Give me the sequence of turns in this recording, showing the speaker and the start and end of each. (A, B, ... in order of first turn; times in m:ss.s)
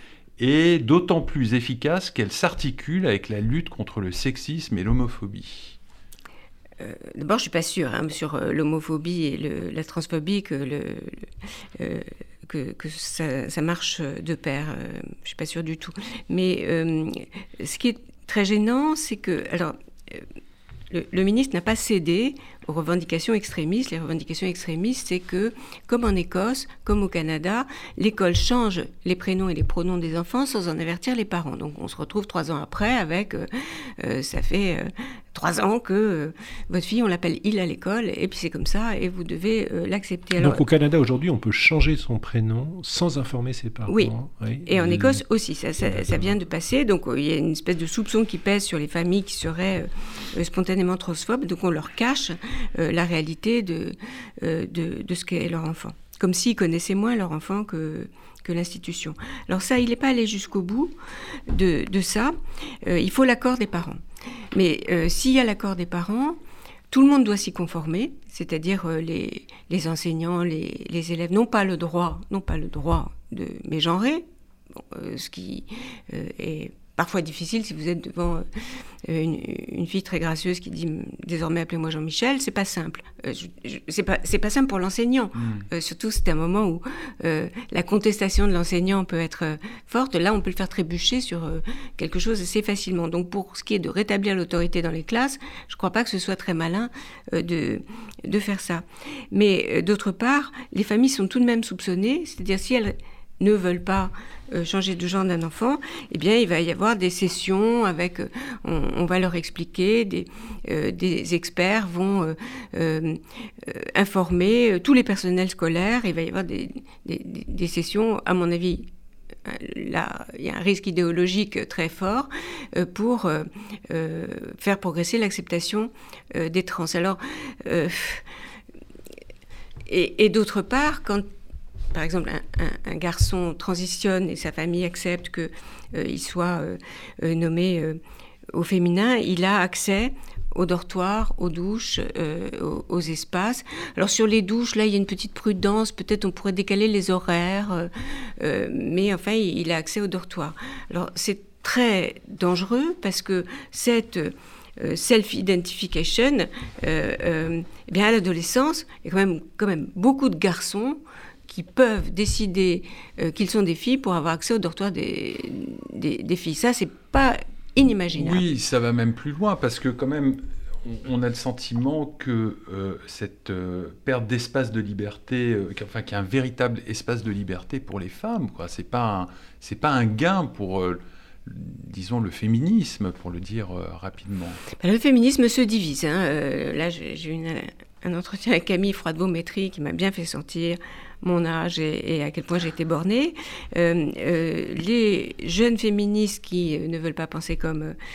0:00.4-0:05.8 A
0:06.8-0:11.3 B
0:11.8-0:20.3 B
0:20.9-0:40.6 B
0:40.4-0:45.2 C
0:43.9-0:44.1 B
0:44.7-1:01.0 B
0:45.8-0:46.3 C
1:01.5-1:04.0 B
1:04.5-1:06.4 B
1:06.9-1:18.5 B
1:19.0-1:58.9 B
1:59.4-2:08.2 B
2:09.9-2:11.3 B
2:11.9-2:18.0 B
2:18.5-2:48.4 B
2:48.2-3:04.6 A
3:04.8-3:18.0 B